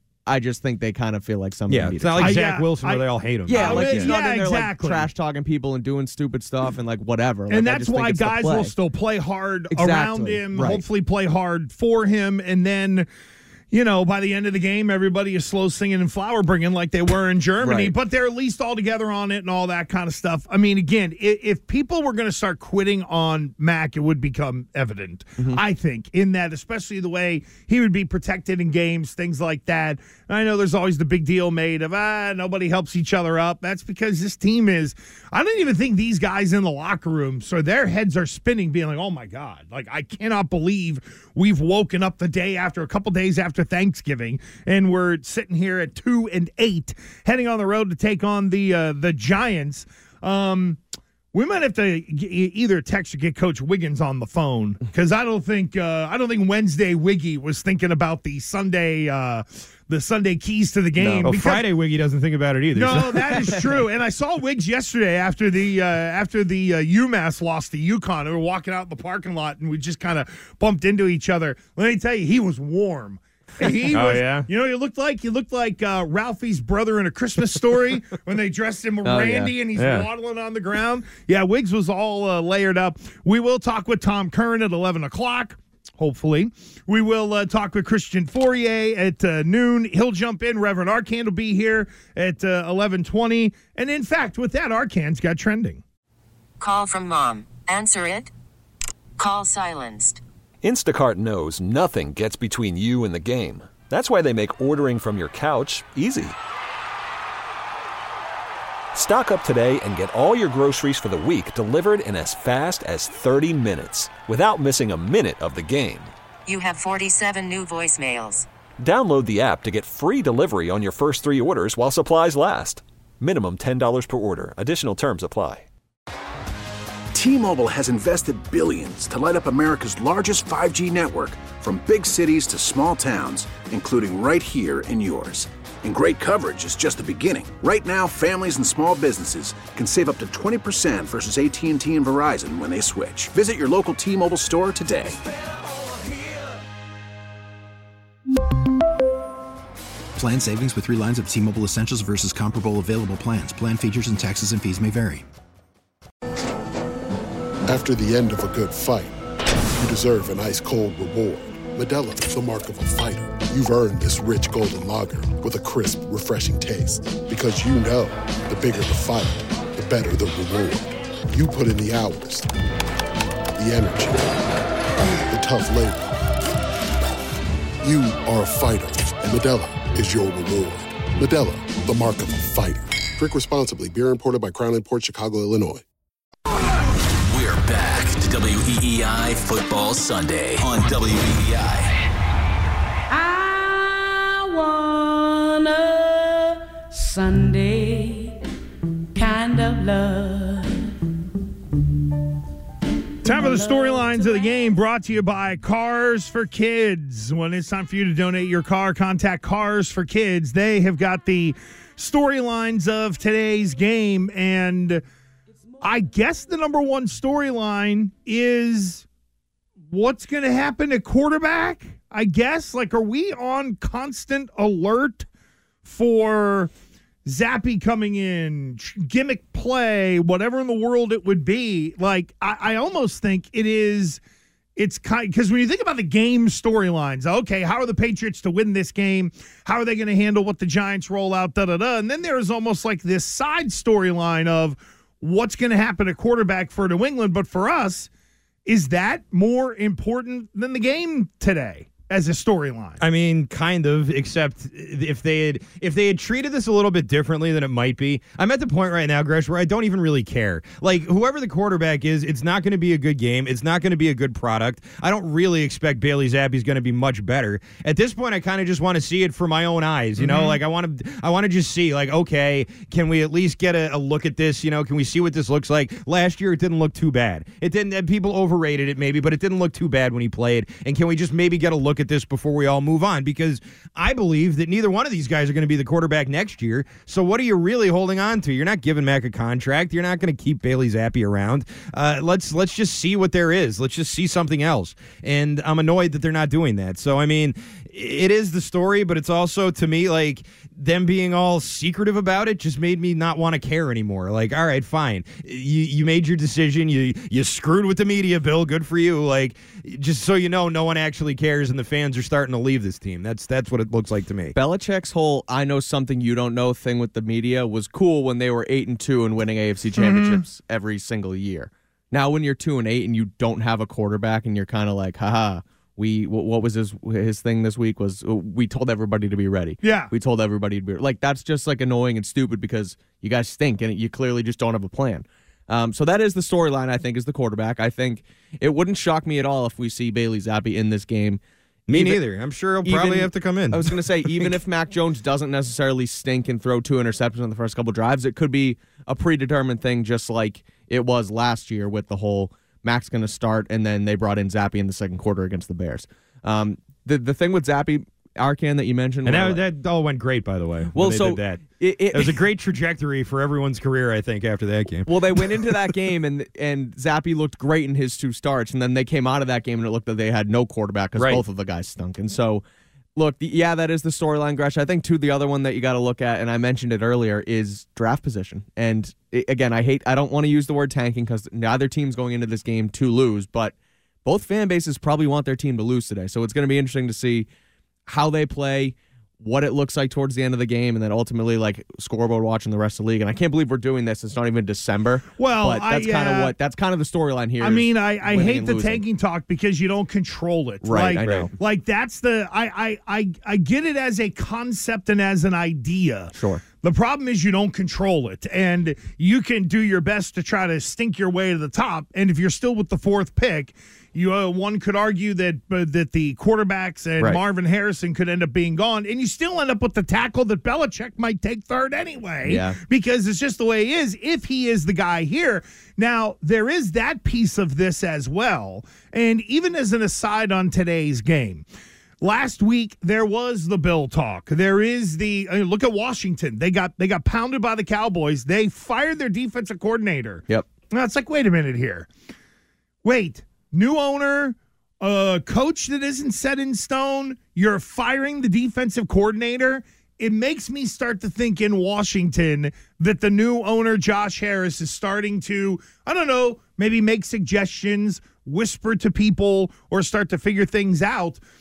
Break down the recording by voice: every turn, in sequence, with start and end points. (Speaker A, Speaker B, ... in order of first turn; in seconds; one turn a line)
Speaker A: 0.2-2.4
Speaker B: 1.7-4.1
Speaker C: 2.2-5.1
Speaker A: 3.5-8.7
Speaker C: 7.5-13.1
Speaker A: 9.7-10.8
Speaker C: 13.7-50.8
Speaker A: 17.6-17.9
Speaker C: 51.3-61.6
Speaker A: 61.0-61.3
Speaker B: 61.2-63.7
Speaker C: 62.7-95.8
Speaker B: 73.9-74.5
Speaker A: 79.0-79.5
Speaker B: 79.8-80.1
Speaker D: 96.6-98.3
Speaker D: 99.2-100.2
Speaker E: 100.6-106.3
Speaker E: 108.9-116.1
Speaker D: 116.5-118.5
Speaker E: 118.8-125.7
Speaker F: 127.1-145.2
Speaker G: 150.2-155.2
Speaker H: 157.7-159.1
Speaker H: 159.8-172.5
Speaker H: 173.6-174.4
Speaker H: 175.3-176.1
Speaker H: 177.8-185.8
Speaker I: 187.2-191.9
Speaker J: 193.1-198.4
Speaker J: 199.1-200.9
Speaker J: 203.2-204.8
Speaker C: 203.2-215.0
Speaker C: 215.8-219.1
Speaker C: 219.9-225.3
Speaker C: 225.8-226.7
Speaker C: 227.2-234.2
Speaker C: 234.8-248.1
Speaker C: 248.7-253.0
Speaker B: 253.0-314.5
Speaker C: 270.2-270.6
Speaker A: 314.5-342.2
Speaker C: 319.9-320.4
Speaker C: 329.8-330.1
Speaker B: 341.9-344.5
Speaker A: 342.8-359.6
Speaker B: 359.2-365.1
Speaker A: 360.9-362.4
Speaker A: 365.1-372.6
Speaker B: 371.2-371.4
Speaker A: 373.1-383.7
Speaker A: 384.2-387.5
Speaker A: 388.1-399.0
Speaker C: 395.4-396.5
Speaker C: 397.6-431.6
Speaker A: 400.8-401.5
Speaker B: 401.2-401.5
Speaker A: 406.3-406.6
Speaker A: 422.4-422.8
Speaker C: 432.2-442.1
Speaker C: 443.0-461.4